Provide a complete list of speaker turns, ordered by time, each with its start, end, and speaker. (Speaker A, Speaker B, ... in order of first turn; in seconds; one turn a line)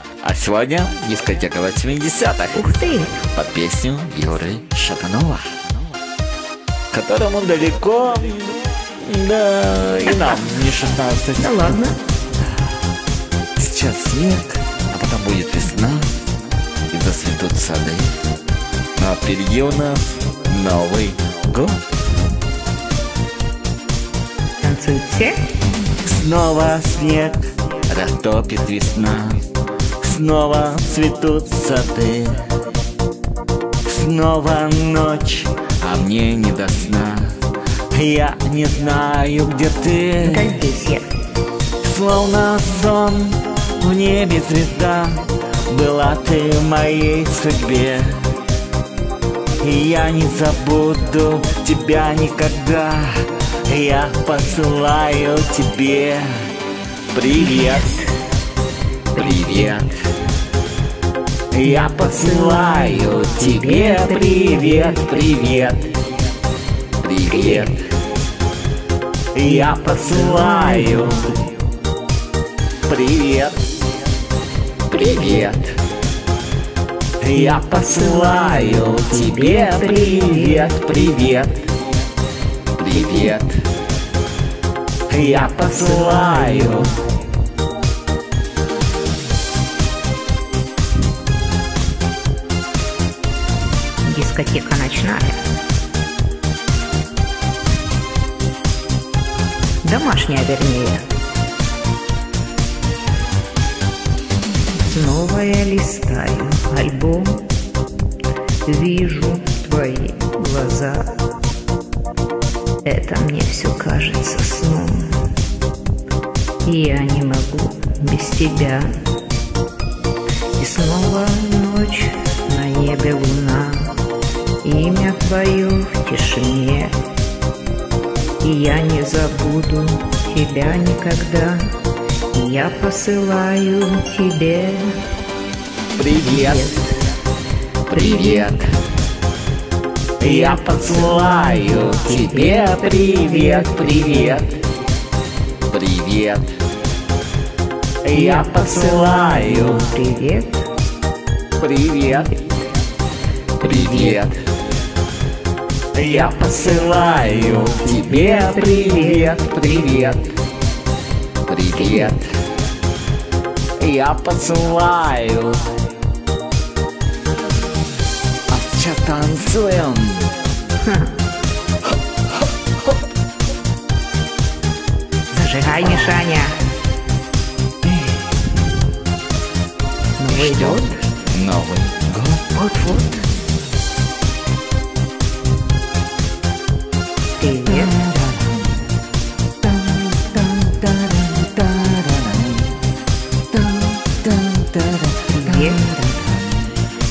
Speaker A: 0.2-2.7
Speaker B: 2.5-3.2
Speaker A: 3.3-5.6
Speaker A: 6.9-11.8
Speaker B: 10.1-10.4
Speaker B: 11.4-12.0
Speaker A: 13.6-16.1
Speaker A: 16.9-18.1
Speaker A: 18.9-21.8
Speaker B: 24.6-25.3
Speaker A: 26.0-29.4
Speaker A: 30.0-32.4
Speaker A: 33.8-37.3
Speaker A: 37.9-40.5
Speaker B: 40.2-41.0
Speaker A: 41.8-48.2
Speaker A: 49.6-56.4
Speaker A: 57.1-58.0
Speaker B: 57.3-58.0
Speaker B: 59.1-59.7
Speaker A: 59.1-59.9
Speaker A: 61.5-65.9
Speaker B: 61.6-65.5
Speaker A: 67.0-67.8
Speaker B: 67.3-67.7
Speaker A: 69.3-71.4
Speaker B: 69.4-71.3
Speaker A: 72.9-73.7
Speaker A: 74.9-75.7
Speaker B: 74.9-75.5
Speaker A: 77.2-81.6
Speaker B: 77.3-81.2
Speaker A: 82.8-83.6
Speaker B: 82.9-83.3
Speaker A: 85.1-87.0
Speaker B: 85.2-86.8
Speaker B: 94.0-95.4
Speaker B: 99.8-101.0
Speaker B: 104.8-107.4
Speaker B: 108.7-111.0
Speaker B: 112.8-115.1
Speaker B: 116.6-118.9
Speaker B: 120.6-123.9
Speaker B: 124.6-126.9
Speaker B: 128.4-131.6
Speaker B: 132.3-134.9
Speaker A: 135.9-136.8
Speaker B: 136.1-137.0
Speaker A: 137.9-138.7
Speaker B: 137.9-138.6
Speaker A: 140.2-144.6
Speaker B: 140.2-144.4
Speaker A: 145.7-146.5
Speaker A: 148.0-149.9
Speaker B: 148.1-150.6
Speaker A: 151.6-152.3
Speaker B: 152.1-152.4
Speaker B: 153.6-154.3
Speaker A: 153.6-154.3
Speaker A: 155.9-160.3
Speaker B: 157.8-159.6
Speaker A: 161.5-162.3
Speaker B: 161.7-162.2
Speaker A: 163.8-165.7
Speaker A: 168.5-170.3
Speaker B: 170.8-171.1
Speaker B: 175.3-176.6
Speaker A: 175.7-176.2
Speaker A: 177.8-178.2
Speaker B: 180.2-181.0
Speaker A: 180.3-182.4
Speaker B: 182.5-183.2
Speaker B: 187.4-188.0
Speaker A: 187.7-188.8
Speaker A: 189.6-192.8
Speaker A: 193.5-196.7
Speaker B: 195.3-195.9